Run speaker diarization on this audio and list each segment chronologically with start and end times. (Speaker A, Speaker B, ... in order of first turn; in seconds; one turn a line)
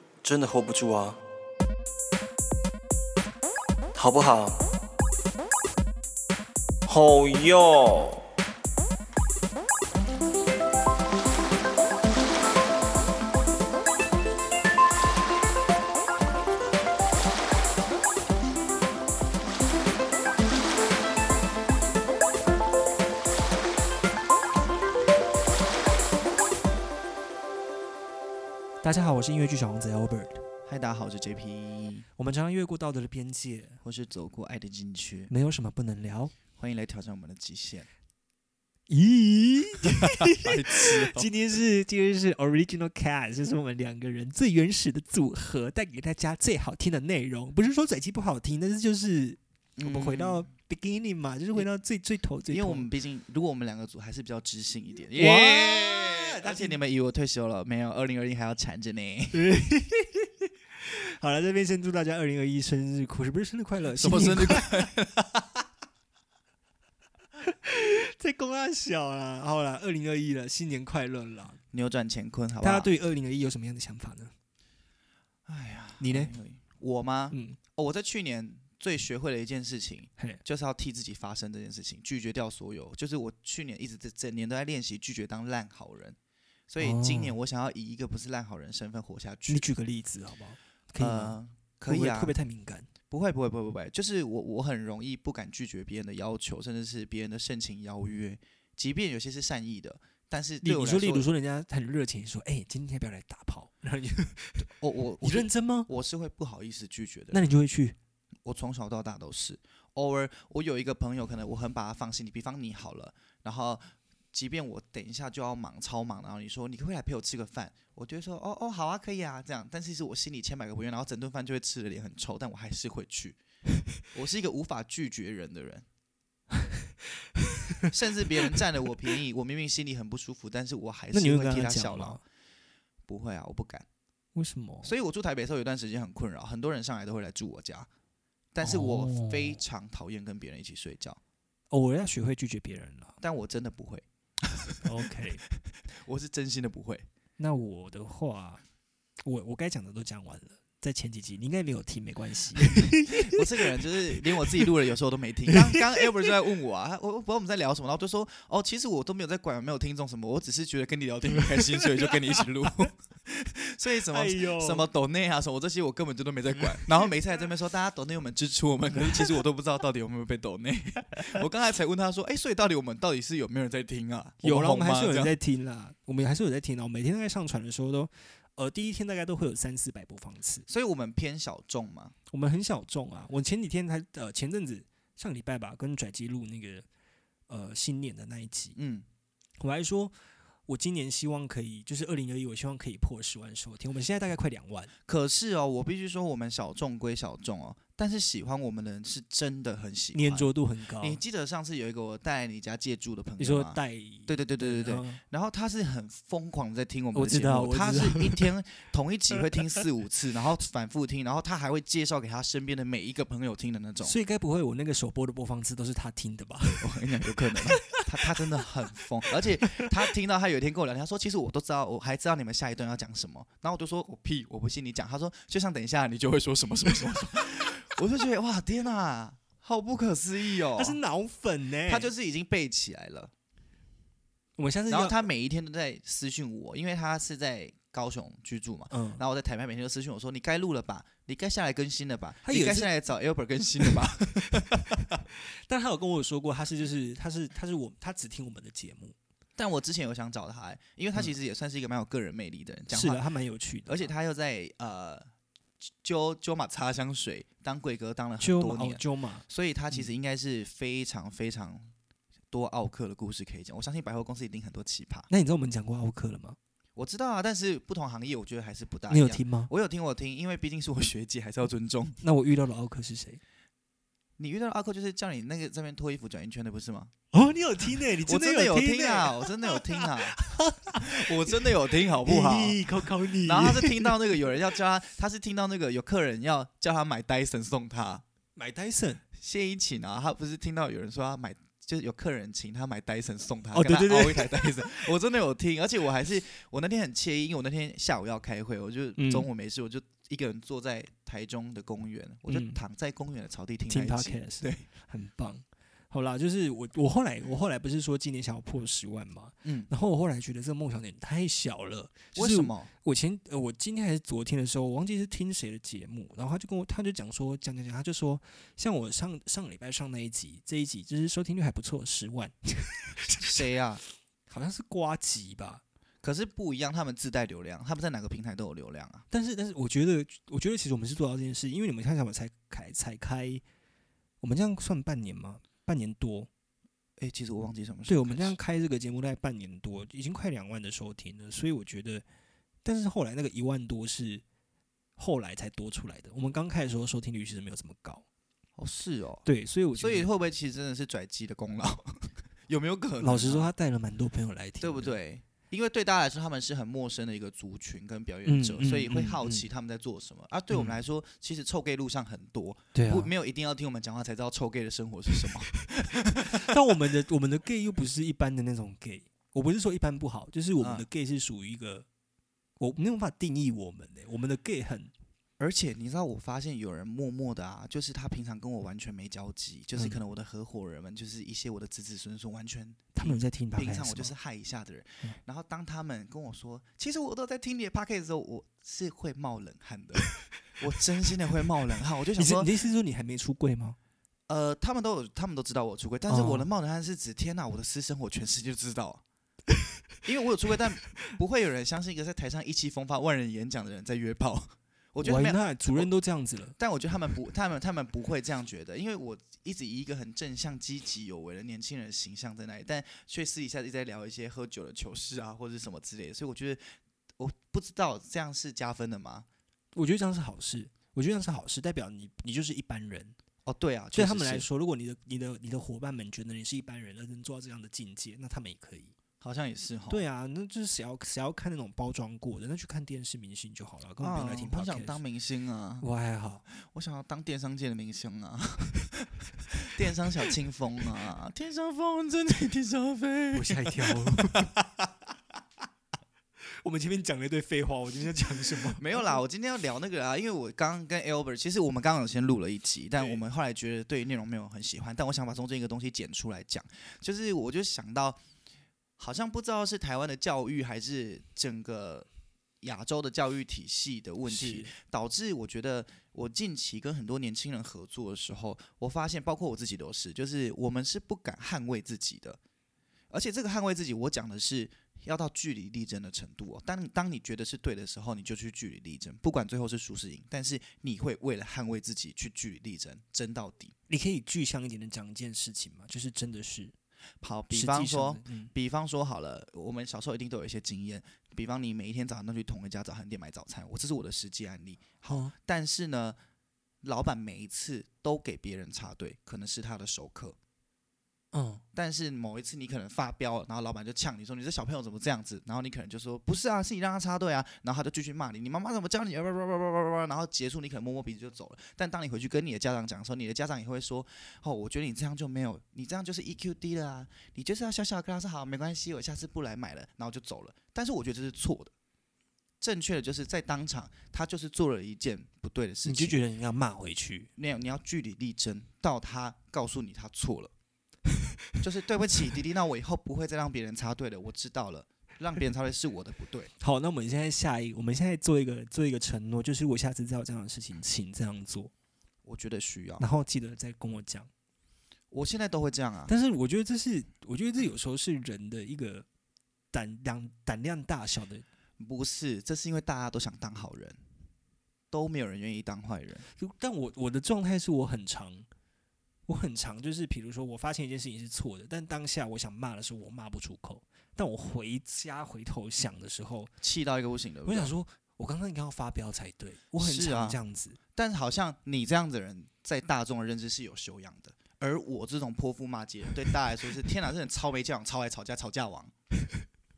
Speaker A: 0.2-1.2
Speaker A: 4.0-4.6
Speaker A: 6.9-8.2
Speaker B: 28.8-30.4
Speaker C: 30.7-32.1
Speaker B: 32.2-33.8
Speaker C: 33.8-35.3
Speaker B: 35.3-36.3
Speaker C: 36.6-37.9
Speaker B: 38.9-52.9
Speaker C: 40.0-41.3
Speaker C: 49.8-50.5
Speaker C: 52.5-59.5
Speaker B: 55.1-56.8
Speaker B: 59.3-60.3
Speaker B: 60.8-64.9
Speaker C: 64.0-65.4
Speaker B: 67.4-71.6
Speaker C: 71.7-72.9
Speaker B: 72.6-74.3
Speaker C: 75.5-86.2
Speaker B: 76.0-76.3
Speaker B: 77.3-77.6
Speaker C: 86.7-89.7
Speaker B: 86.8-87.4
Speaker B: 89.5-92.9
Speaker C: 91.0-92.4
Speaker C: 93.1-101.3
Speaker B: 100.6-104.7
Speaker C: 104.6-107.4
Speaker B: 105.2-105.9
Speaker B: 107.3-108.0
Speaker C: 108.5-123.4
Speaker C: 124.1-125.8
Speaker C: 127.9-132.2
Speaker B: 131.1-132.2
Speaker C: 133.1-133.9
Speaker B: 134.3-134.9
Speaker C: 134.8-137.9
Speaker C: 138.5-141.2
Speaker B: 138.6-139.6
Speaker B: 141.7-143.2
Speaker C: 143.2-145.2
Speaker B: 144.8-145.4
Speaker C: 145.9-147.1
Speaker B: 147.4-148.6
Speaker B: 149.2-153.8
Speaker C: 152.8-175.3
Speaker B: 155.5-156.0
Speaker B: 164.1-164.9
Speaker B: 174.4-180.7
Speaker C: 180.7-182.2
Speaker B: 182.3-186.9
Speaker B: 187.5-188.8
Speaker C: 188.8-189.1
Speaker B: 189.6-190.1
Speaker B: 190.7-194.9
Speaker C: 195.1-214.2
Speaker B: 200.1-201.2
Speaker B: 203.4-205.2
Speaker B: 207.2-208.5
Speaker B: 214.0-218.3
Speaker C: 216.8-231.0
Speaker B: 230.8-232.1
Speaker C: 231.9-233.3
Speaker B: 234.6-235.2
Speaker C: 234.9-245.2
Speaker B: 238.9-239.2
Speaker B: 242.4-242.9
Speaker B: 243.8-249.2
Speaker C: 249.6-253.2
Speaker B: 252.9-254.1
Speaker C: 253.9-255.3
Speaker C: 255.8-261.9
Speaker B: 258.4-260.1
Speaker C: 262.5-265.3
Speaker B: 265.3-266.6
Speaker C: 267.0-272.2
Speaker B: 269.1-269.7
Speaker B: 272.2-273.4
Speaker C: 274.4-277.1
Speaker B: 277.3-281.6
Speaker C: 277.9-280.4
Speaker C: 280.9-288.2
Speaker B: 282.2-284.1
Speaker B: 288.6-289.2
Speaker C: 289.4-304.9
Speaker B: 293.7-294.8
Speaker B: 299.2-299.5
Speaker B: 302.5-302.8
Speaker B: 303.9-323.5
Speaker C: 309.6-309.9
Speaker C: 312.4-312.9
Speaker C: 323.4-324.0
Speaker B: 324.5-325.8
Speaker C: 326.2-329.2
Speaker B: 329.3-333.6
Speaker B: 334.4-336.5
Speaker C: 337.2-338.6
Speaker B: 338.1-342.2
Speaker B: 342.9-344.4
Speaker B: 345.2-348.2
Speaker C: 348.8-353.7
Speaker B: 349.4-350.3
Speaker B: 353.2-355.1
Speaker C: 354.8-366.6
Speaker B: 358.5-359.7
Speaker B: 360.7-361.0
Speaker B: 362.9-363.3
Speaker B: 365.9-372.1
Speaker C: 370.8-371.1
Speaker B: 372.8-375.1
Speaker C: 375.6-392.7
Speaker B: 380.0-380.2
Speaker B: 383.1-384.3
Speaker B: 392.4-394.0
Speaker C: 394.5-399.2
Speaker B: 396.3-396.7
Speaker C: 400.2-406.1
Speaker B: 405.2-406.8
Speaker C: 406.8-419.5
Speaker B: 419.9-423.4
Speaker C: 423.6-424.7
Speaker B: 424.1-429.1
Speaker C: 429.4-430.2
Speaker B: 430.1-435.2
Speaker C: 434.2-436.1
Speaker B: 436.0-436.6
Speaker C: 436.7-444.7
Speaker B: 443.5-444.7
Speaker B: 446.8-449.2
Speaker C: 449.0-458.4
Speaker C: 459.2-462.3
Speaker C: 462.8-472.6
Speaker B: 464.4-464.9
Speaker C: 473.3-483.9
Speaker B: 484.1-486.9
Speaker C: 487.4-496.4
Speaker B: 487.7-488.7
Speaker B: 495.2-495.5
Speaker C: 497.0-500.6
Speaker B: 501.5-501.8
Speaker C: 501.9-521.9
Speaker C: 522.8-526.4
Speaker B: 526.0-527.5
Speaker C: 527.6-530.7
Speaker C: 531.8-536.7
Speaker B: 536.8-541.9
Speaker C: 542.4-543.2
Speaker B: 543.2-544.5
Speaker C: 545.3-546.3
Speaker B: 546.3-549.3
Speaker B: 549.9-551.6
Speaker C: 552.0-554.2
Speaker C: 555.1-556.5
Speaker B: 556.5-558.7
Speaker B: 559.5-566.7
Speaker C: 566.8-567.9
Speaker B: 567.7-571.0
Speaker C: 570.0-570.6
Speaker C: 571.1-579.1